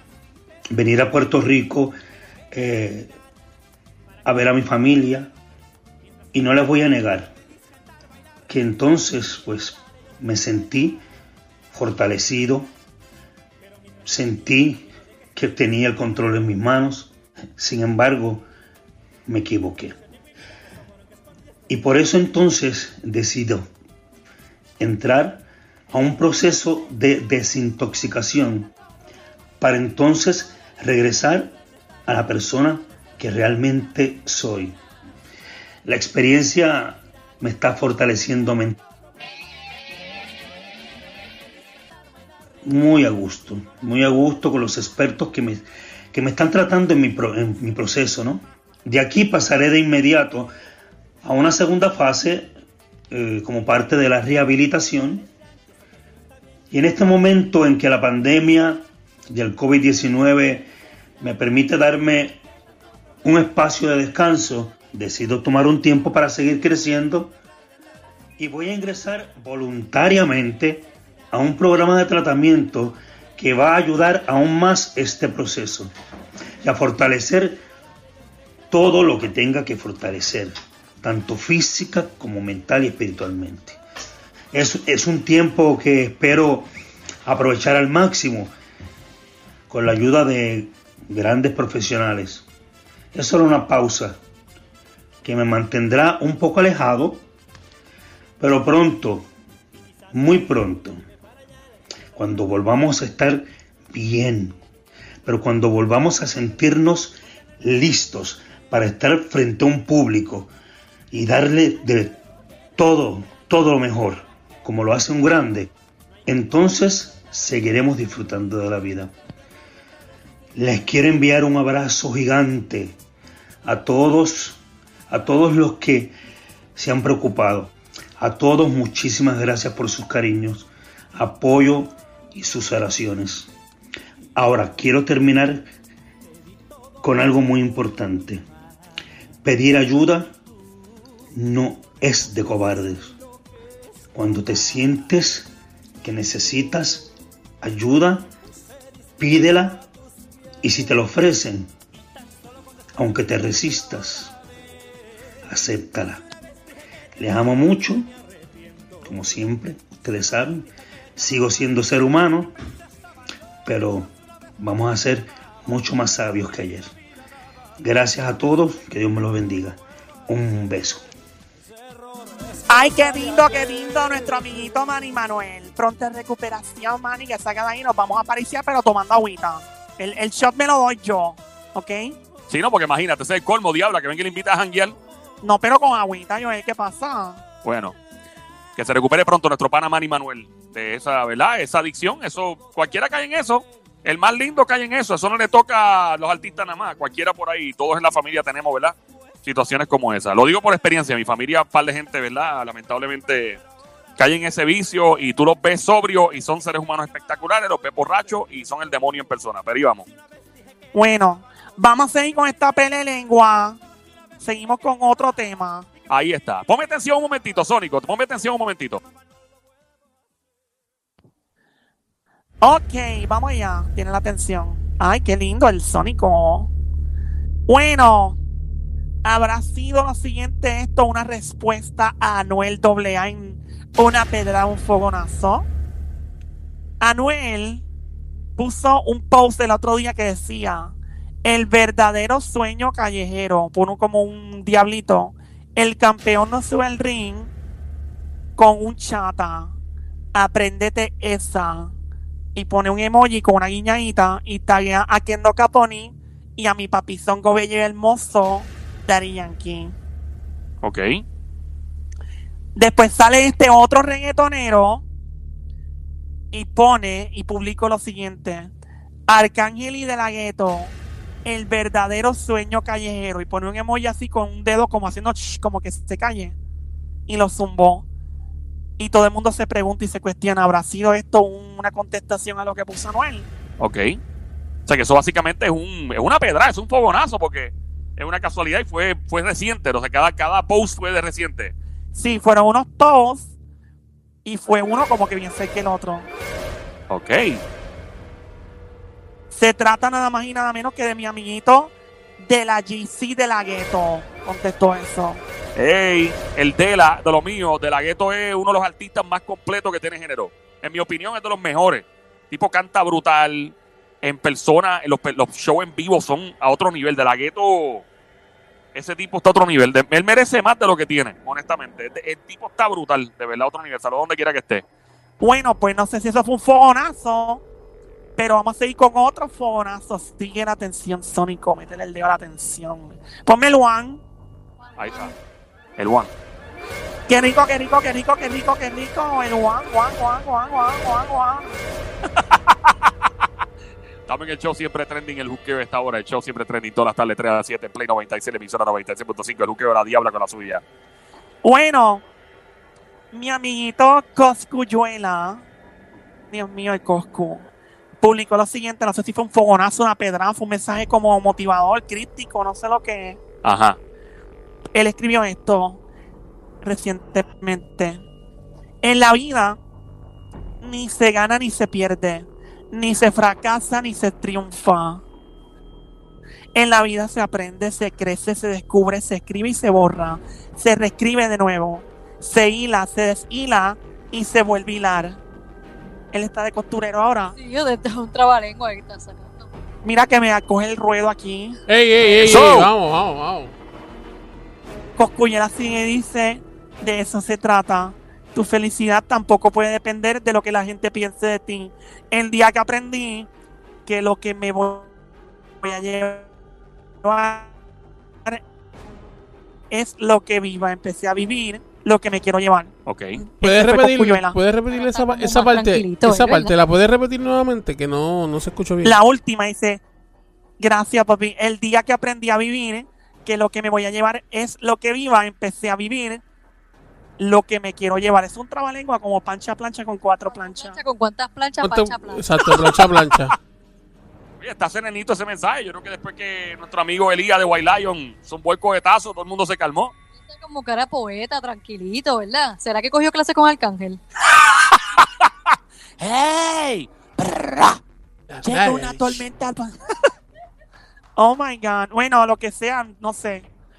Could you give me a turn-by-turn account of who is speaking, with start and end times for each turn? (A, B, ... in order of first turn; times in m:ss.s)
0:00.7-0:02.0 A
0:02.5-0:03.2 A
0:04.2-0:05.3 A
0:06.3-0:07.3 A
0:08.5-0:11.0 A
0:11.7-0:12.7 A
0:14.0-0:18.5 A
0:19.2-0:20.0 A
0:21.7-0:23.7 A
0:24.8-0:28.7 A
0:29.6-0:34.8 A
0:35.8-0:38.8 A
0:42.6-0:50.5 A
0:51.2-0:52.5 A
0:53.1-0:55.3 A
0:56.7-1:00.7 A
1:01.2-1:02.4 A
1:03.2-1:07.3 A
1:08.4-1:15.9 A
1:16.6-1:17.6 A
1:18.7-1:23.8 A
1:24.5-1:26.7 A
1:27.2-1:28.5 A
1:29.7-1:32.4 A
1:33.1-1:34.2 A
1:35.2-1:37.2 A
1:38.4-1:39.3 A
1:40.1-1:41.0 A
1:42.1-1:44.6 A
1:45.2-1:50.5 A
1:51.1-1:52.2 A
1:52.8-1:55.7 A
1:56.2-1:59.1 A
2:00.5-2:03.0 A
2:03.6-2:06.2 A
2:06.8-2:13.5 A
2:14.4-2:15.7 A
2:17.0-2:18.4 A
2:19.4-2:20.3 A
2:21.3-2:23.1 A
2:24.1-2:28.3 A
2:29.2-2:29.9 A
2:30.6-2:31.7 A
2:32.9-2:34.3 A
2:35.4-2:36.2 A
2:37.2-2:38.1 A
2:39.0-2:42.5 A
2:43.6-2:46.9 A
2:47.8-2:51.0 A
2:52.7-3:02.2 B
3:02.5-3:05.0 C
3:05.4-3:07.4 B
3:07.6-3:08.0 C
3:08.8-3:23.6 C
3:24.2-3:30.1 C
3:30.9-3:33.8 B
3:34.4-3:35.9 B
3:36.1-3:39.0 C
3:42.6-3:46.7 B
3:47.7-3:48.4 B
3:49.2-3:55.7 B
3:57.0-3:57.8 B
3:58.6-4:07.5 B
4:08.6-4:09.7 B
4:10.3-4:11.9 B
4:12.5-4:19.9 B
4:20.8-4:21.2 C
4:22.8-4:25.0 B
4:26.5-4:28.7 B
4:29.3-4:30.9 B
4:31.4-4:36.6 B
4:37.3-4:38.0 B
4:39.0-4:43.5 B
4:43.8-4:44.2 C
4:44.9-4:51.7 C
4:52.1-4:53.5 B
4:54.4-4:56.3 B
4:57.1-4:57.6 C
4:59.5-5:05.4 B
5:05.8-5:18.0 C
5:18.9-5:24.8 C
5:25.4-5:27.6 B
5:28.4-5:34.2 B
5:34.8-5:35.4 D
5:35.0-5:35.3 C
5:36.0-5:36.3 C
5:37.3-5:41.8 B
5:42.4-5:43.1 C
5:44.3-5:50.8 C
5:51.6-5:52.2 B
5:53.3-5:55.6 B
5:56.5-5:57.7 B
5:58.2-6:03.4 B
6:03.6-6:04.0 C
6:04.9-6:06.0 B
6:06.8-6:08.2 B
6:09.0-6:09.8 B
6:10.8-6:15.2 B
6:16.7-6:25.4 B
6:26.3-6:27.5 B
6:27.5-6:29.7 D
6:30.0-6:31.8 B
6:31.9-6:33.7 E
6:32.4-6:32.9 C
6:35.2-6:43.5 B
6:44.0-6:45.1 B
6:45.8-6:46.5 B
6:47.2-6:47.7 B
6:49.9-6:52.9 B
6:53.0-6:53.4 C
6:53.4-6:59.2 E
6:53.6-6:54.6 B
6:54.9-6:56.7 D
6:59.0-7:00.0 B
7:00.8-7:06.4 B
7:07.4-7:11.0 B
7:10.5-7:12.5 D
7:11.8-7:13.6 E
7:14.6-7:20.1 C
7:20.4-7:24.2 D
7:24.6-7:25.5 C
7:26.2-7:28.0 C
7:28.5-7:29.4 E
7:28.6-7:29.9 B
7:31.4-7:33.7 B